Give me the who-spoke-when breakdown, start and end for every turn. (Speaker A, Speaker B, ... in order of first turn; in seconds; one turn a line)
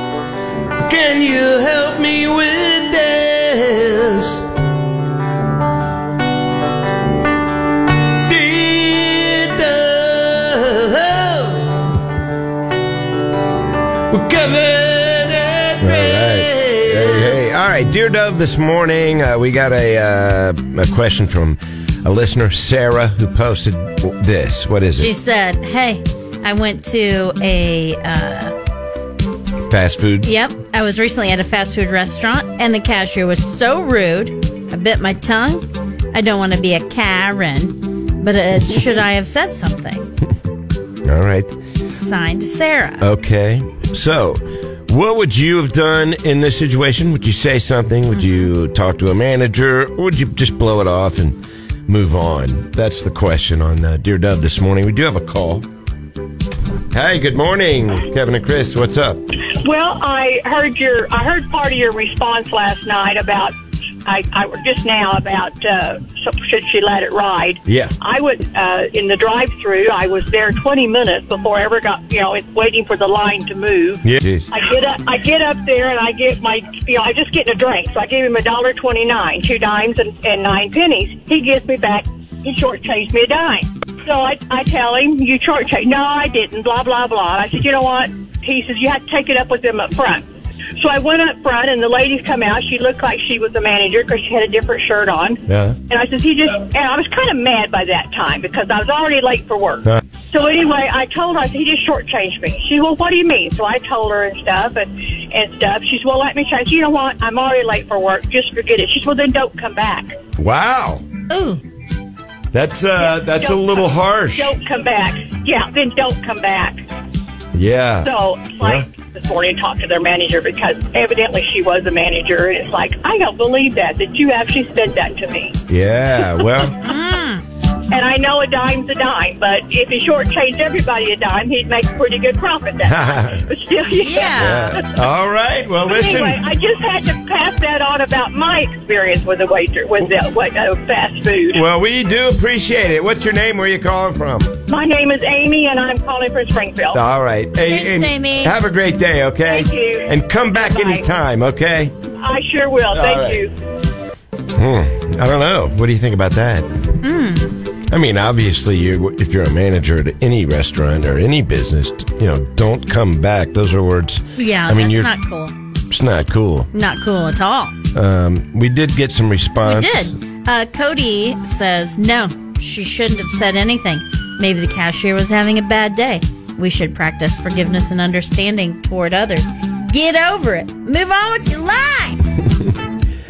Speaker A: 0.8-4.4
Speaker A: 8.3-11.7
Speaker A: 14.1-17.4
Speaker B: 15.8-25.1
Speaker C: 25.0-28.5
Speaker B: 29.7-30.3
Speaker C: 30.2-40.1
Speaker B: 41.0-41.5
Speaker C: 41.9-43.1
Speaker B: 43.0-55.6
Speaker B: 56.9-59.2
Speaker D: 59.6-63.5
Speaker D: 64.0-110.2
Speaker B: 67.7-67.9
Speaker B: 74.0-74.5
Speaker B: 95.5-95.8
Speaker B: 110.4-111.0
Speaker C: 111.3-111.6
Speaker B: 112.5-114.5
Speaker D: 113.0-116.8
Speaker B: 117.5-118.1
Speaker D: 118.0-125.6
Speaker B: 125.7-126.8
Speaker C: 126.8-127.4
Speaker D: 127.9-134.9
Speaker B: 132.8-133.4
Speaker C: 133.9-134.8
Speaker B: 134.3-136.4
Speaker D: 135.8-141.6
Speaker B: 141.5-144.5
Speaker D: 144.7-147.0
Speaker B: 146.9-151.9
Speaker C: 147.6-148.6
Speaker D: 149.4-151.1
Speaker D: 152.2-153.5
Speaker B: 152.9-153.4
Speaker B: 154.6-156.7
Speaker C: 157.0-157.5
Speaker B: 157.9-165.1
Speaker C: 164.3-165.5
Speaker B: 165.9-166.7
Speaker C: 166.7-167.8
Speaker B: 167.9-170.1
Speaker C: 169.6-182.2